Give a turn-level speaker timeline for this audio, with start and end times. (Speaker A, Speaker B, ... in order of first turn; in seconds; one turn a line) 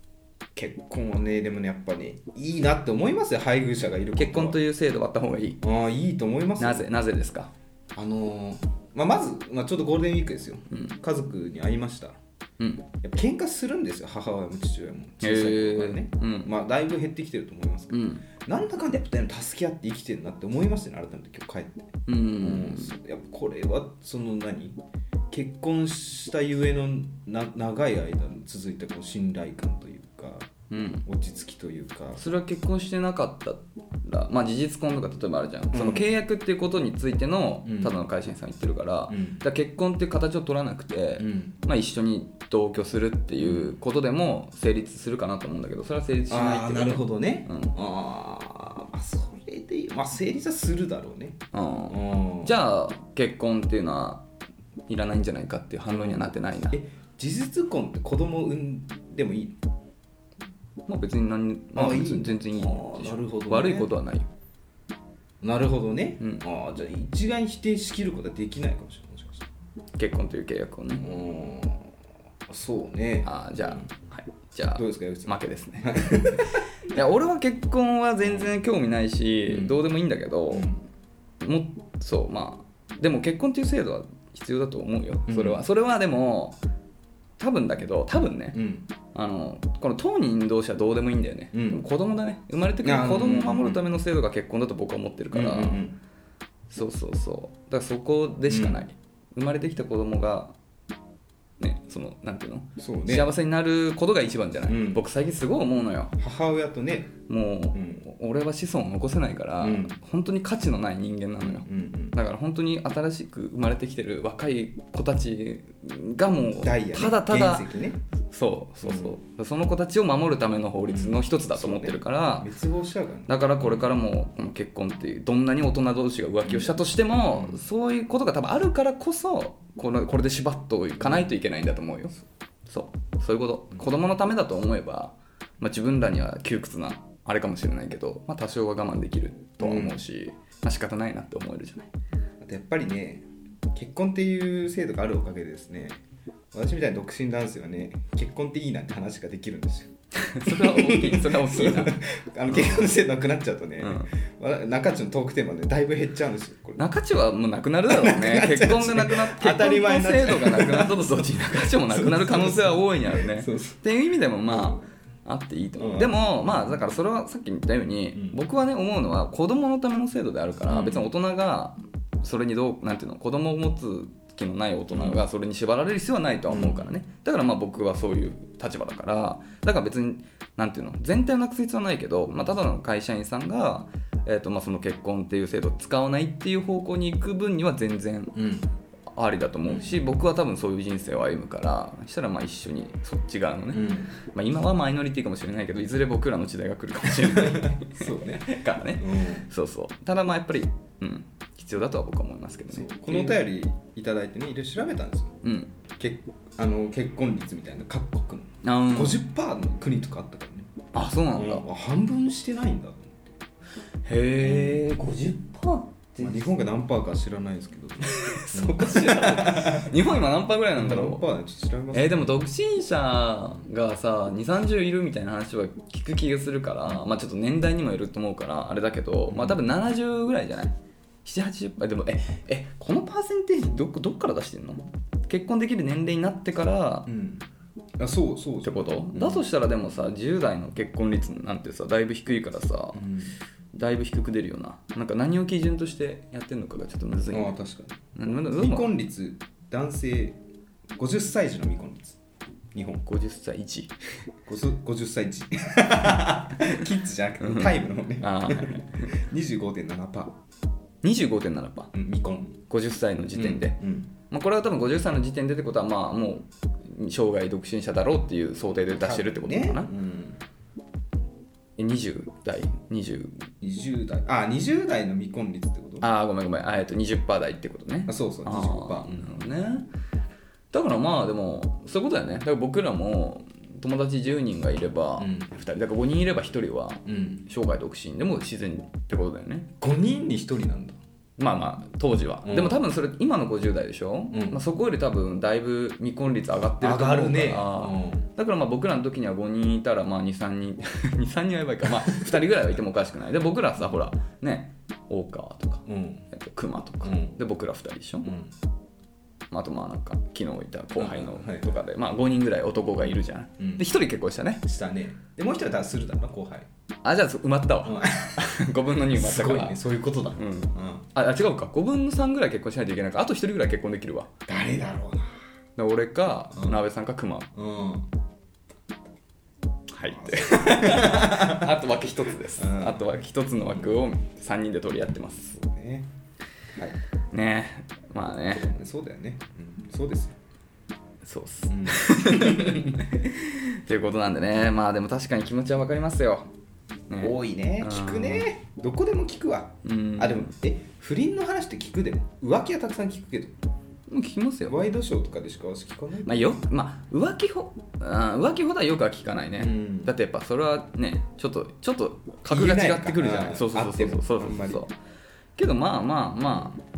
Speaker A: 0.5-4.6
Speaker B: 4.2-5.6
Speaker A: 5.6-6.9
Speaker B: 6.6-7.5
Speaker A: 7.9-12.2
Speaker B: 12.6-12.9
Speaker A: 13.0-24.8
Speaker B: 15.2-16.5
Speaker B: 17.9-18.2
Speaker B: 22.1-22.9
Speaker A: 25.3-30.5
Speaker B: 30.7-31.0
Speaker A: 31.0-32.2
Speaker B: 32.2-47.7
Speaker A: 35.7-36.0
Speaker A: 37.6-37.9
Speaker A: 39.1-39.4
Speaker A: 41.2-41.5
Speaker A: 43.4-43.7
Speaker A: 46.3-52.6
Speaker B: 51.5-54.2
Speaker B: 54.9-56.8
Speaker A: 55.9-59.5
Speaker B: 60.9-64.3
Speaker A: 61.7-63.9
Speaker A: 65.4-69.5
Speaker B: 70.0-71.4
Speaker A: 71.0-71.9
Speaker A: 72.5-73.9
Speaker B: 73.2-80.7
Speaker A: 74.7-76.6
Speaker A: 78.2-78.5
Speaker A: 79.5-79.8
Speaker A: 80.5-80.8
Speaker B: 81.4-86.6
Speaker A: 85.3-85.6
Speaker B: 87.4-88.6
Speaker A: 88.5-88.9
Speaker B: 89.1-95.8
Speaker A: 91.5-91.8
Speaker A: 92.8-93.8
Speaker A: 95.3-96.0
Speaker B: 96.7-100.5
Speaker A: 98.5-98.8
Speaker B: 101.6-106.1
Speaker A: 102.8-103.3
Speaker A: 104.7-105.0
Speaker A: 106.2-107.2
Speaker B: 107.3-117.7
Speaker A: 107.7-108.0
Speaker A: 109.6-110.0
Speaker A: 111.4-112.2
Speaker A: 116.6-118.0
Speaker B: 118.3-122.5
Speaker A: 118.8-119.2
Speaker A: 120.9-124.0
Speaker B: 123.3-132.1
Speaker A: 126.4-127.6
Speaker A: 131.0-131.3
Speaker B: 132.7-141.9
Speaker A: 139.6-140.0
Speaker A: 142.4-146.0
Speaker A: 146.5-156.8
Speaker B: 150.3-153.0
Speaker B: 153.8-154.1
Speaker B: 156.8-188.3
Speaker A: 157.9-163.8
Speaker A: 164.5-164.8
Speaker A: 165.8-166.8
Speaker A: 168.1-168.4
Speaker A: 170.7-171.1
Speaker A: 174.9-175.2
Speaker A: 176.5-176.9
Speaker A: 188.3-188.7
Speaker B: 189.1-203.4
Speaker A: 189.6-190.0
Speaker A: 193.7-194.1
Speaker A: 197.2-199.5
Speaker A: 202.7-205.3
Speaker B: 205.4-205.7
Speaker A: 206.0-213.3
Speaker B: 208.6-209.2
Speaker B: 210.9-211.7
Speaker B: 214.0-216.5
Speaker A: 214.4-214.8
Speaker A: 216.2-219.9
Speaker B: 218.1-221.2
Speaker A: 220.7-222.4
Speaker B: 221.9-237.1
Speaker A: 229.3-229.6
Speaker A: 237.1-237.4
Speaker A: 238.0-239.4
Speaker B: 238.6-243.1
Speaker A: 242.9-243.3
Speaker B: 243.7-247.5
Speaker A: 247.3-250.4
Speaker B: 248.1-248.9
Speaker A: 251.0-252.2
Speaker A: 252.7-253.1
Speaker B: 253.1-253.9
Speaker A: 254.5-260.3
Speaker B: 257.4-259.1
Speaker B: 261.0-261.9
Speaker A: 261.9-262.6
Speaker B: 262.7-263.8
Speaker A: 263.3-264.1
Speaker B: 264.3-269.9
Speaker A: 268.9-270.4
Speaker B: 271.8-273.4
Speaker A: 273.6-276.1
Speaker B: 276.0-279.9
Speaker A: 278.1-279.5
Speaker B: 280.7-289.7
Speaker A: 285.2-285.5
Speaker A: 287.1-287.4
Speaker A: 289.8-291.0
Speaker B: 291.4-308.3
Speaker A: 292.4-292.8
Speaker A: 294.3-294.6
Speaker A: 296.8-298.3
Speaker A: 305.9-306.2
Speaker A: 307.0-307.4
Speaker A: 308.2-308.5
Speaker B: 309.5-314.6
Speaker A: 311.0-311.8
Speaker A: 313.6-313.9
Speaker A: 314.6-316.7
Speaker B: 317.0-319.8
Speaker A: 317.8-321.1
Speaker B: 320.4-324.3
Speaker A: 324.5-325.3
Speaker B: 325.8-327.5
Speaker A: 326.5-326.8
Speaker A: 327.5-328.1
Speaker B: 329.9-335.5
Speaker A: 330.1-331.7
Speaker A: 332.6-333.1
Speaker A: 335.4-336.1
Speaker A: 336.7-337.0
Speaker B: 337.3-338.7
Speaker A: 338.5-340.4
Speaker B: 341.2-346.5
Speaker A: 341.7-343.0
Speaker B: 347.1-348.5
Speaker A: 347.2-353.5
Speaker B: 349.8-350.5
Speaker B: 354.1-354.8
Speaker A: 354.6-356.6
Speaker B: 356.2-364.9
Speaker A: 359.6-360.1
Speaker A: 362.4-364.8
Speaker B: 365.6-366.8